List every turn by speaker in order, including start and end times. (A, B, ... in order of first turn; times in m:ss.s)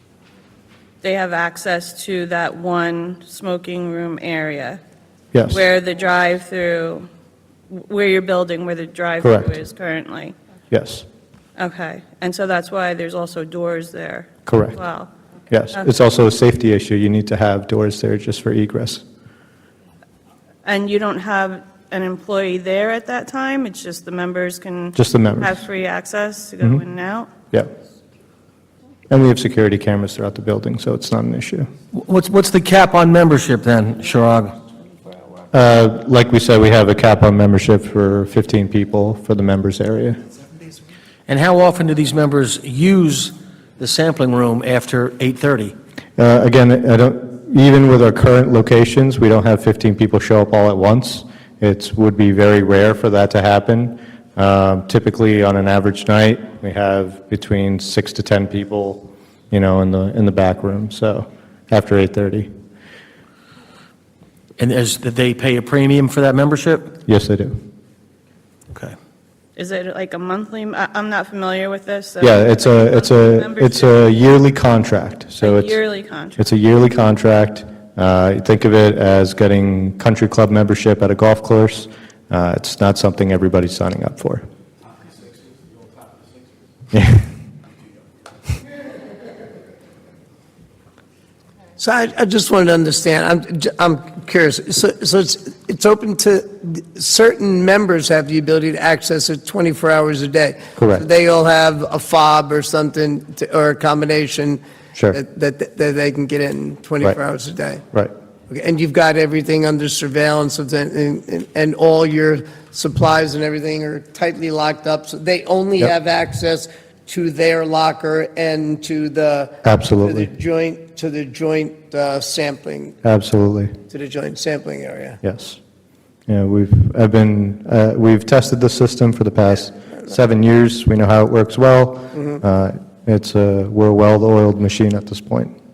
0:01.0-0:04.8 A
0:05.3-0:05.6 B
0:05.5-0:07.0 A
0:07.7-0:10.3 A
0:09.2-0:09.6 B
0:10.7-0:11.0 B
0:11.6-0:15.1 A
0:14.4-0:14.8 B
0:15.5-0:19.0 B
0:20.6-0:27.3 A
0:25.0-0:25.6 B
0:29.1-0:31.7 B
0:31.9-0:34.5 C
0:35.5-0:40.2 B
0:41.3-0:45.7 C
0:46.2-1:02.5 B
1:04.6-1:06.9 C
1:07.0-1:07.6 B
1:08.7-1:08.9 C
1:09.6-1:14.1 A
1:12.2-1:15.8 B
1:15.4-1:16.4 A
1:16.4-1:24.4 B
1:26.9-1:27.2 B
1:31.8-1:47.8 D
1:40.8-1:41.0 B
1:48.5-2:03.0 D
1:59.6-2:00.3 B
2:03.0-2:03.7 B
2:03.9-2:05.2 D
2:05.2-2:05.6 B
2:06.3-2:15.5 B